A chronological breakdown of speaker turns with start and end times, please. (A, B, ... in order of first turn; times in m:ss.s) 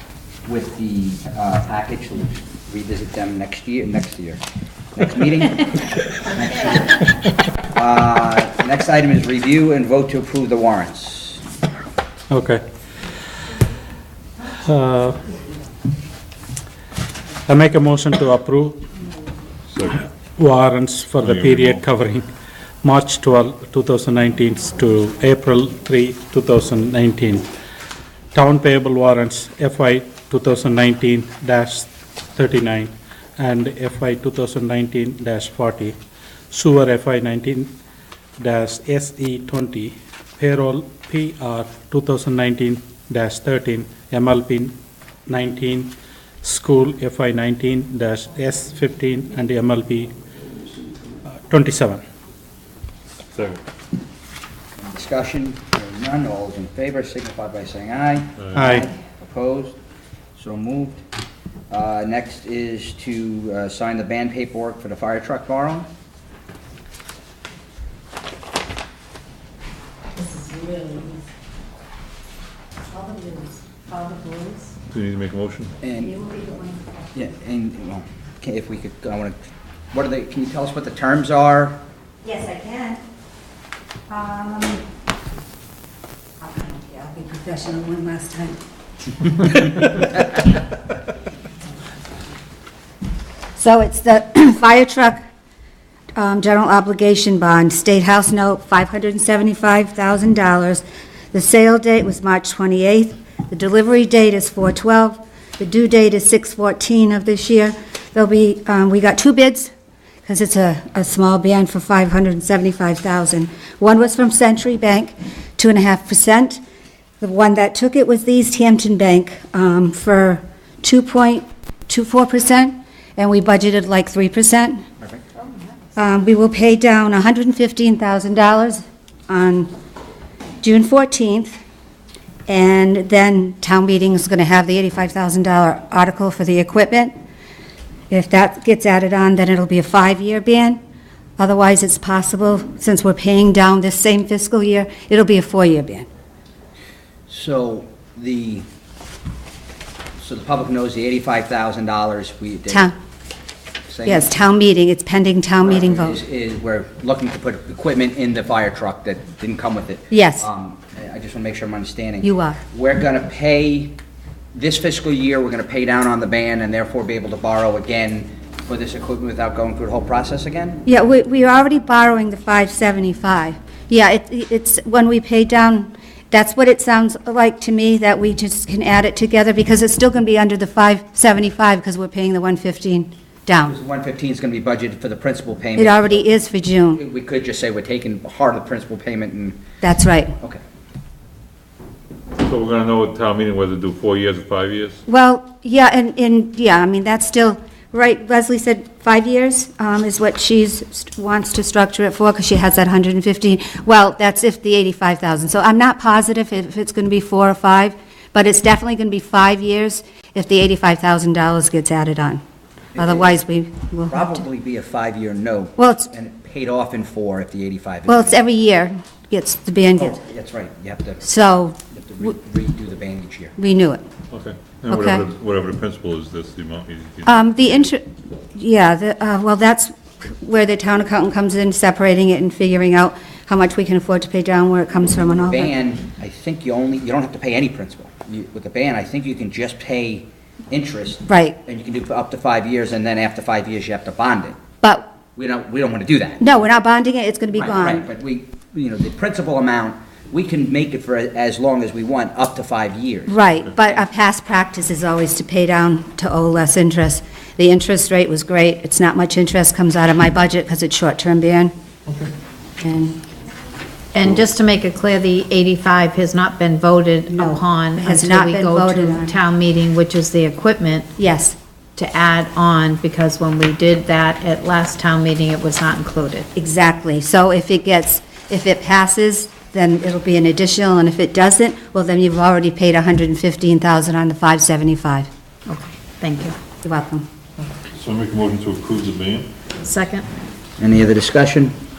0:00.4-0:04.4 A
0:04.9-0:07.0 A
0:07.7-0:11.4 A
0:12.3-0:12.6 B
0:14.6-0:15.2 B
0:17.5-0:18.8 B
0:19.7-0:20.0 C
0:20.4-0:22.3 B
0:21.2-0:21.8 C
0:22.8-0:27.5 B
0:28.3-0:36.0 B
0:36.5-0:37.7 B
0:38.4-0:44.7 B
0:45.3-0:50.1 B
0:51.5-0:52.0 B
0:53.3-0:53.6 C
0:54.9-0:59.8 A
0:58.5-0:58.8 B
1:00.4-1:01.0 A
1:01.7-1:05.9 A
1:10.2-1:11.2 D
1:12.9-1:14.4 D
1:13.9-1:14.6 E
1:14.9-1:15.7 C
1:15.8-1:16.2 A
1:16.0-1:17.1 D
1:17.1-1:19.4 A
1:19.9-1:21.8 A
1:22.2-1:23.0 D
1:24.1-1:24.8 D
1:26.4-1:28.6 D
1:29.3-1:30.1 D
1:33.6-1:35.2 D
1:36.1-1:49.7 D
1:50.2-1:56.6 D
1:57.2-2:04.8 D
2:06.0-2:09.7 D
2:10.6-2:11.6 D
2:12.5-2:17.1 D
2:18.1-2:20.8 D
2:21.4-2:26.1 D
2:27.3-2:28.6 A
2:30.2-2:32.9 A
2:32.7-2:32.9 D
2:33.9-2:34.3 A
2:34.0-2:36.2 D
2:35.6-2:44.0 A
2:40.1-2:40.5 D
2:42.2-2:42.6 D
2:44.5-2:50.8 A
2:50.8-3:03.7 D
3:03.6-3:06.4 A
3:05.8-3:07.0 D
3:06.9-3:09.6 A
3:09.8-3:10.3 D
3:12.4-3:15.0 C
3:15.1-3:32.4 D
3:32.9-3:33.4 A
3:33.0-3:34.4 D
3:34.1-3:38.4 A
3:35.8-3:36.1 D
3:38.1-3:40.2 D
3:40.0-3:41.2 A
3:41.2-3:41.8 D
3:41.9-3:43.6 A
3:43.6-3:44.0 D
3:44.3-3:47.4 C
3:44.9-3:45.2 D
3:47.2-3:55.7 D
3:55.4-4:04.6 A
4:01.3-4:01.6 D
4:05.3-4:06.6 A
4:06.4-4:08.1 D
4:07.5-4:13.4 A
4:13.3-4:21.7 D
4:22.8-4:23.2 D
4:24.1-4:31.1 E
4:27.3-4:29.4 D
4:31.2-4:31.6 D
4:32.0-4:36.5 E
4:36.5-4:45.3 D
4:45.7-4:46.6 E
4:46.8-4:47.2 D
4:48.0-4:49.5 C
4:49.8-4:50.3 E
4:50.8-4:51.8 A